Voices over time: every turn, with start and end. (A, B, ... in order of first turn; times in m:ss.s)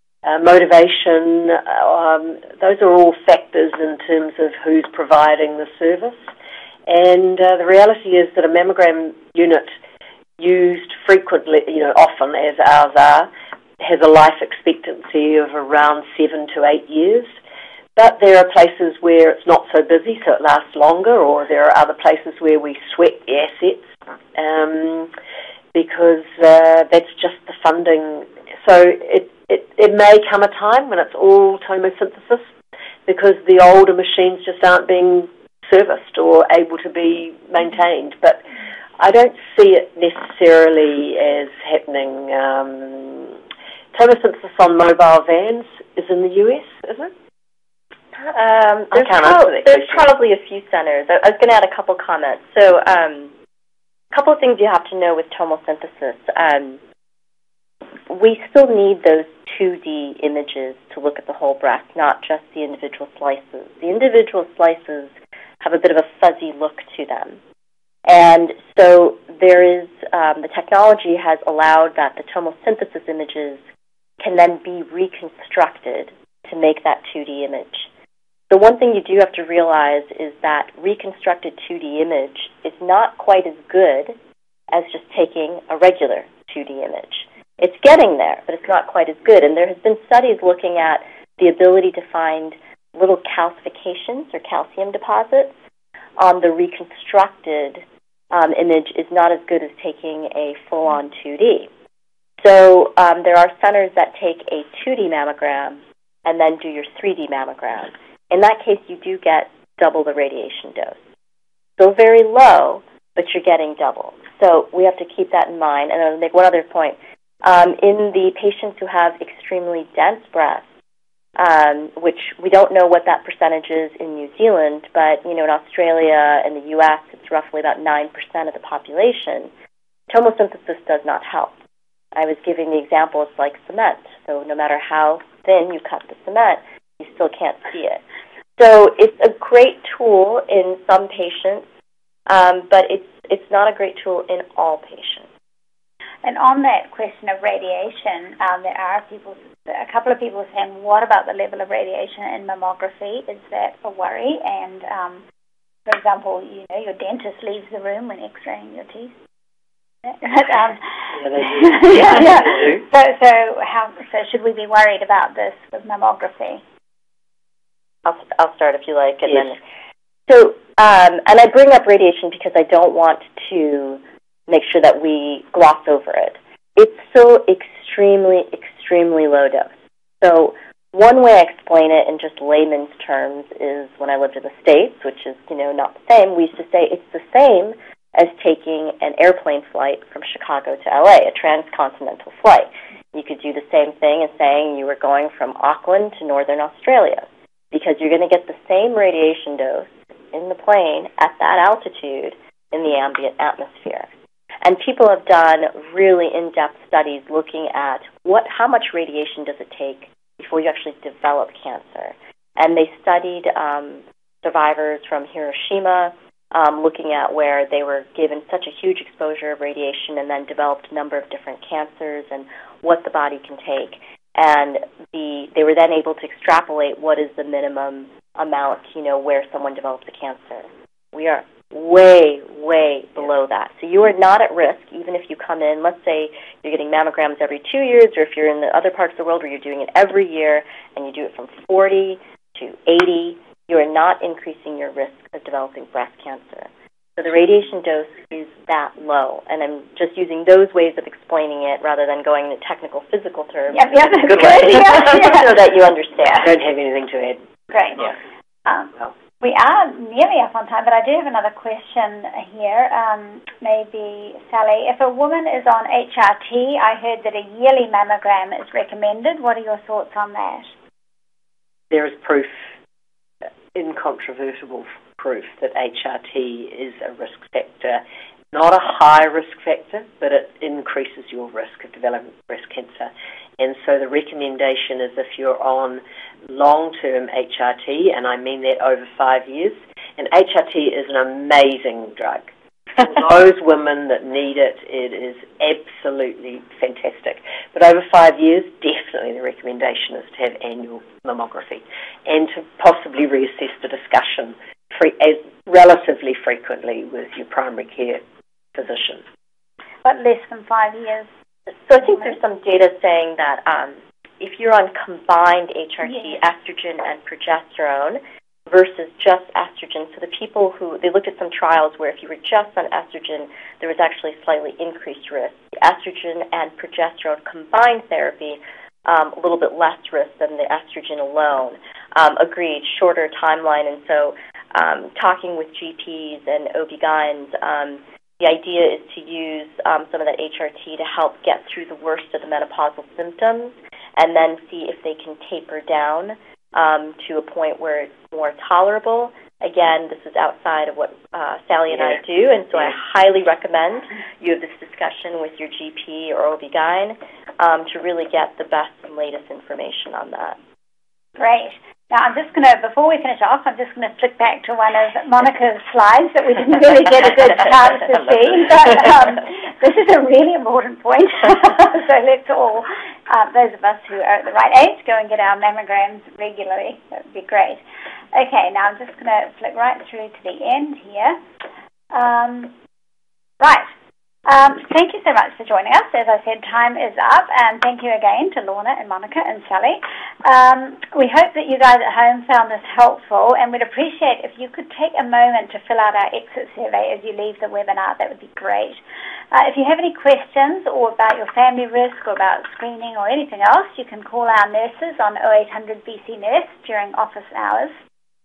0:00.2-0:06.2 A
0:06.8-0:09.7 A
0:10.4-0:17.3 A
0:18.0-0:25.1 A
0:25.7-0:32.5 A
0:33.0-0:38.4 A
0:39.0-0:43.4 A
0:43.9-0:47.1 A
0:48.2-0:53.3 B
0:48.9-0:50.1 A
0:54.1-0:56.8 B
0:58.1-1:07.4 B
1:08.0-1:13.6 B
1:14.2-1:17.9 B
1:18.5-1:24.1 B
1:24.7-1:35.5 B
1:36.2-1:41.7 B
1:42.4-1:51.0 B
1:51.8-2:00.6 B
2:01.4-2:09.5 B
2:10.1-2:11.5 B
2:12.1-2:18.0 B
2:18.6-2:21.6 B
2:22.3-2:25.3 B
2:26.2-2:35.2 C
2:35.8-2:39.1 C
2:40.0-2:40.8 C
2:41.1-2:42.8 A
2:41.4-2:46.6 C
2:48.0-2:49.6 B
2:50.3-3:24.1 B
3:24.6-4:16.5 B
4:13.7-4:15.5 C
4:16.3-4:17.4 A
4:17.7-4:18.1 C
4:18.6-4:30.7 C
4:31.9-4:32.6 A
4:33.7-5:08.2 A
5:08.7-5:09.2 A
5:10.0-5:11.3 C
5:11.9-6:00.6 B
6:01.4-6:21.4 C
6:22.1-6:22.7 C
6:23.6-6:23.8 C
6:24.4-6:39.0 C
6:39.5-6:47.9 C